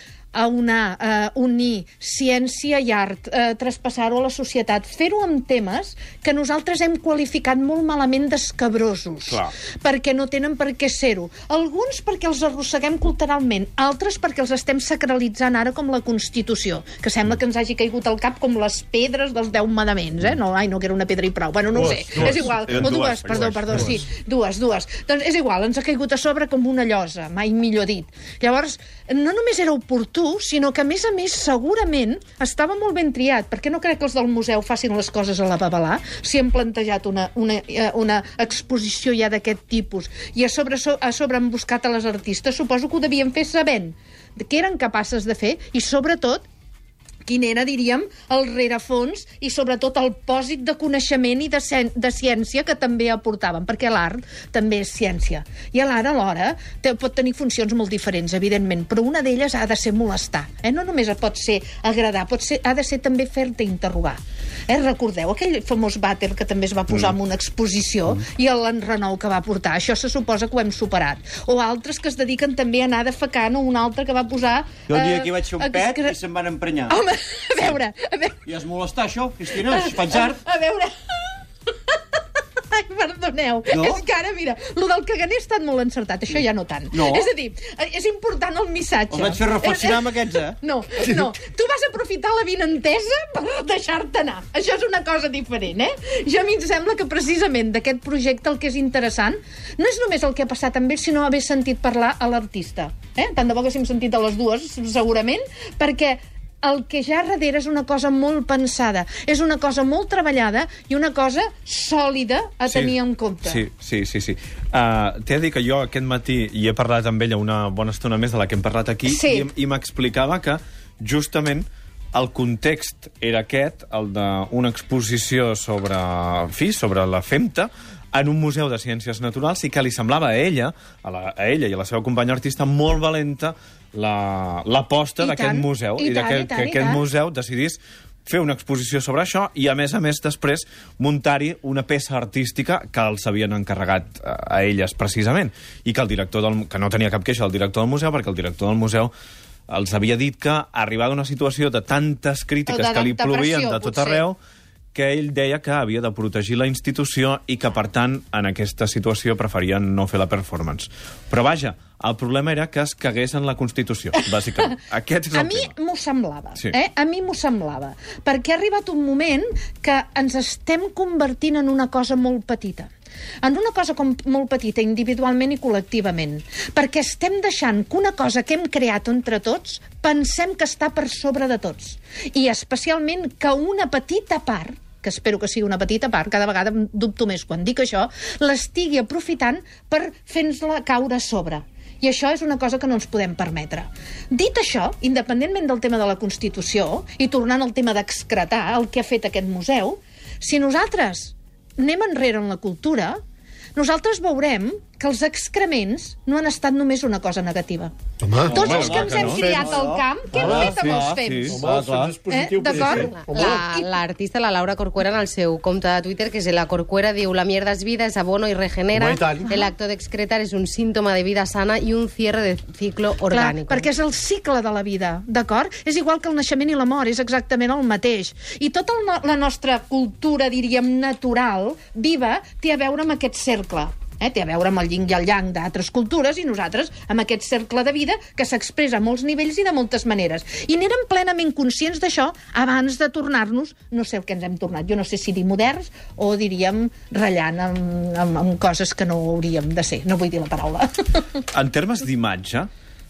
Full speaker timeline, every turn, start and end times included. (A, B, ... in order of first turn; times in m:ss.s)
0:00.3-0:46.4 A
0:21.8-0:22.6 B
0:22.2-0:23.9 C
0:23.7-0:24.0 B
0:47.2-1:16.2 A
1:14.9-1:17.0 D
1:16.9-1:18.4 A
1:18.4-1:20.4 D
1:19.7-1:22.0 A
1:22.6-1:53.6 A
1:23.7-1:24.0 D
1:26.9-1:27.3 D
1:29.1-1:30.6 D
1:52.7-2:29.1 C
1:59.1-1:59.5 A
2:15.2-2:17.0 A
2:29.7-2:34.4 C
2:32.7-2:34.2 A
2:34.9-2:45.7 C
2:45.3-2:52.9 A
2:53.4-3:23.2 A
3:23.8-3:27.9 A
3:28.2-3:29.8 B
3:28.4-3:32.2 D
3:28.5-3:31.6 A
3:28.6-3:29.4 C
3:30.3-3:33.6 B
3:32.3-3:33.9 A
3:33.1-3:43.8 E
3:38.9-3:39.6 B
3:43.3-4:11.4 A
4:11.5-4:12.7 C